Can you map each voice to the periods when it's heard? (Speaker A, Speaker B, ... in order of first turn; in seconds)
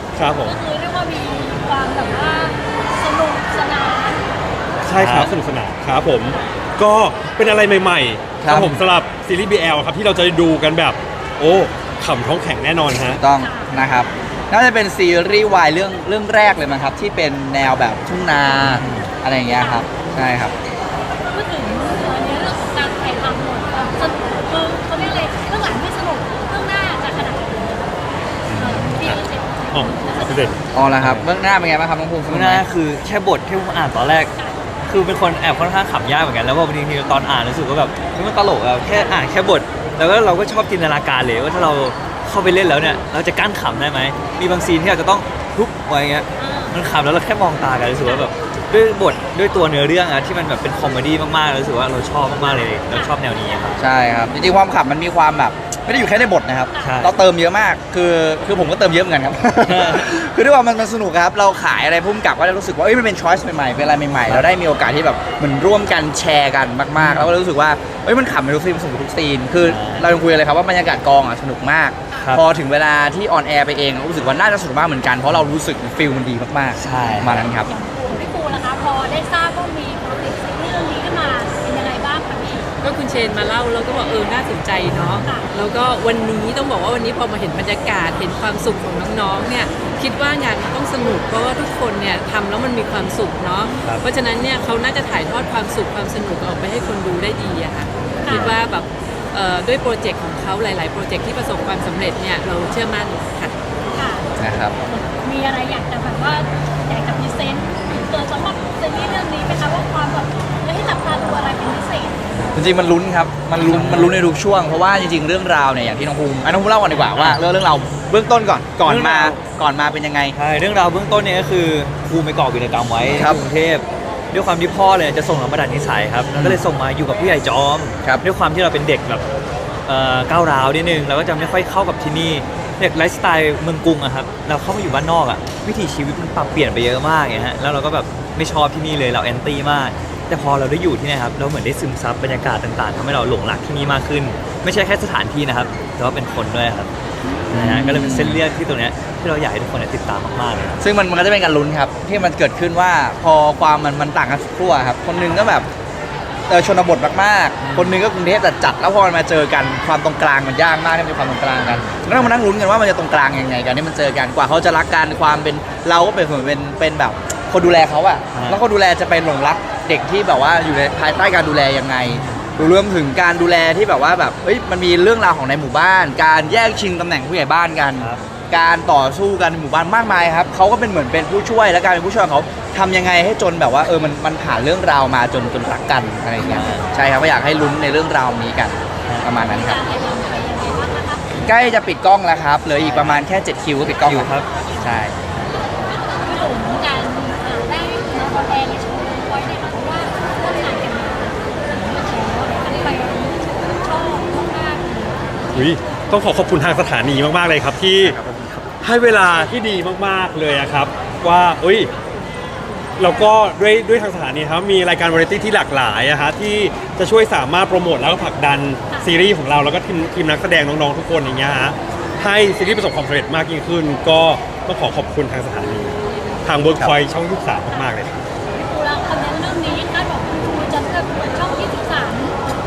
Speaker A: 0.1-0.6, 4.8-13.2, 28.5-30.6, 205.5-208.2, 208.8-211.9, 213.0-228.1
Speaker B: 0.4-4.2, 13.3-13.8, 19.5-19.9, 21.2-30.6, 34.3-34.6, 46.4-46.8, 48.0-48.3, 56.7-57.0, 77.4-82.7, 85.2-85.5, 98.2-98.5, 103.9-104.3, 104.8-112.2, 147.2-147.6, 189.3-191.4, 196.2-205.3, 218.9-219.1, 228.5-232.3
Speaker C: 4.9-5.3, 18.6-19.1, 31.0-31.2, 32.3-34.3, 34.9-53.8, 56.8-57.1, 59.6-60.1, 67.0-67.3, 69.6-70.1, 72.2-72.4, 76.8-77.4, 85.0-85.2, 113.6-114.2, 117.1-117.4, 118.8-119.4, 120.3-129.2, 129.8-146.9, 147.5-150.8, 157.6-158.0, 161.6-162.3, 168.3-168.6, 172.1-172.4, 186.4-186.9, 189.1-189.3, 192.8-193.2, 194.0-194.5
Speaker D: 8.4-8.8, 13.2-20.6, 30.7-32.6, 53.8-77.7, 104.4-104.7, 112.5-120.4, 123.1-123.4, 126.3-126.6, 147.5-148.4, 150.8-155.7, 156.5-189.8, 191.4-195.2, 208.0-208.7
Speaker E: 82.8-103.5